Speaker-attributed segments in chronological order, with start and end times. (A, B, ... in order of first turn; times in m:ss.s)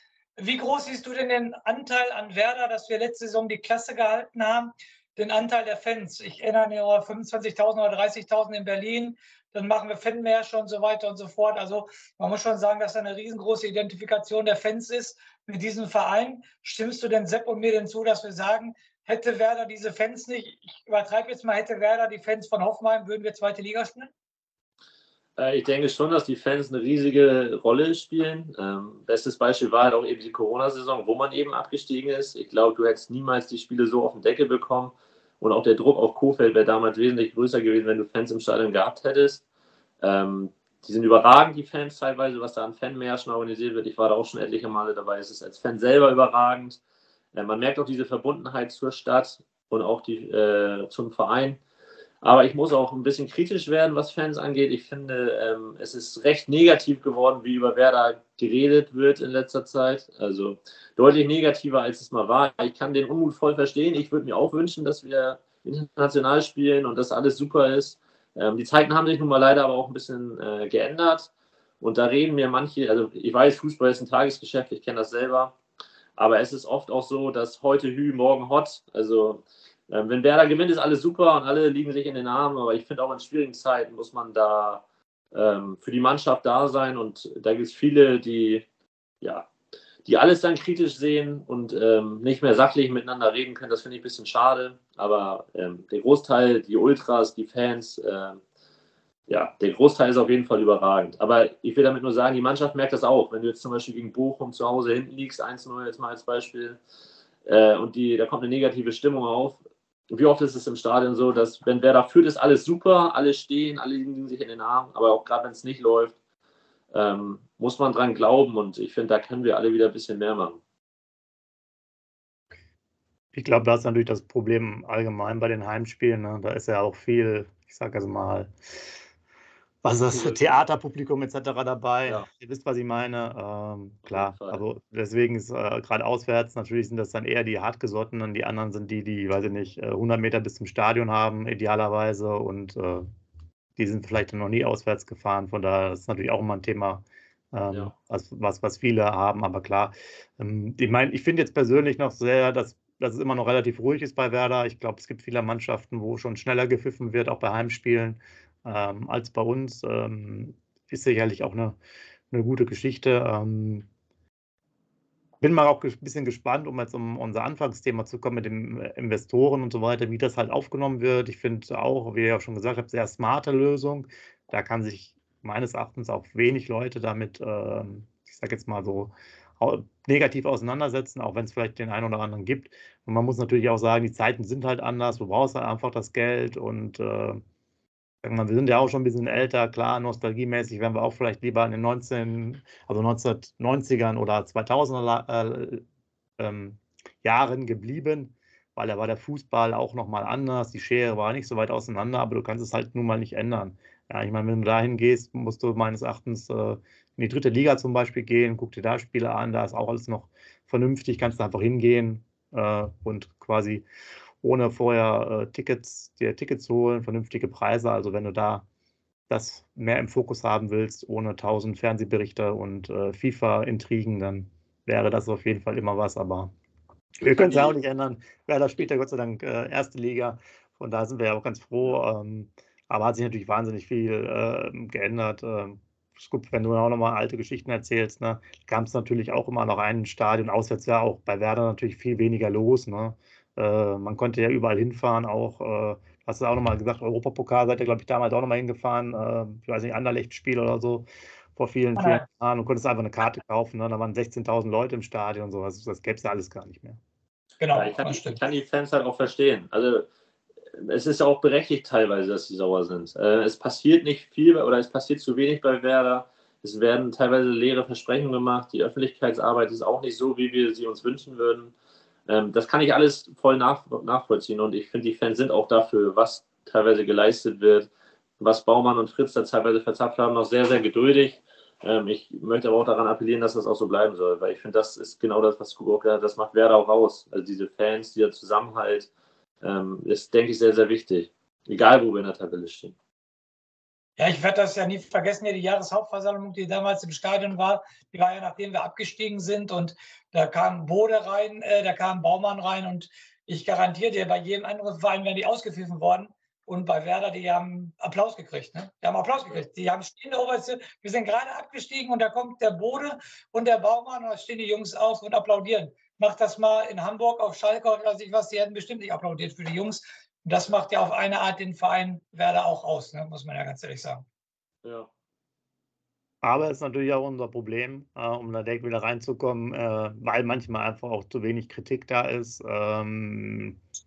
0:00.4-0:24.1 A
0:25.4-0:39.4 B
0:40.0-0:46.8 B
0:47.3-0:51.6 B
0:52.2-1:11.3 B
1:11.8-1:15.6 B
1:16.2-1:28.6 B
1:29.2-1:29.5 B
1:30.0-1:38.4 B
1:39.3-1:46.8 B
1:47.5-1:49.6 B
1:50.1-1:56.2 B
1:56.9-2:00.6 B
2:03.3-2:08.5 C
2:09.8-2:23.1 C
2:10.1-2:10.6 B
2:14.0-2:14.6 B
2:23.8-2:41.8 C
2:27.7-2:27.9 B
2:42.3-2:43.9 C
2:45.4-3:07.4 C
3:08.2-3:15.9 C
3:16.4-3:33.9 C
3:34.4-3:38.7 C
3:39.3-3:46.5 C
3:47.2-4:17.0 C
3:47.3-3:47.8 B
4:12.0-4:12.2 A
4:17.6-4:18.4 A
4:17.8-4:20.1 B
4:20.8-4:31.7 B
4:32.3-4:37.9 B
4:38.4-4:49.1 B
4:49.6-4:53.0 B
4:54.2-5:24.2 A
5:24.8-5:25.1 B
5:26.4-5:33.8 C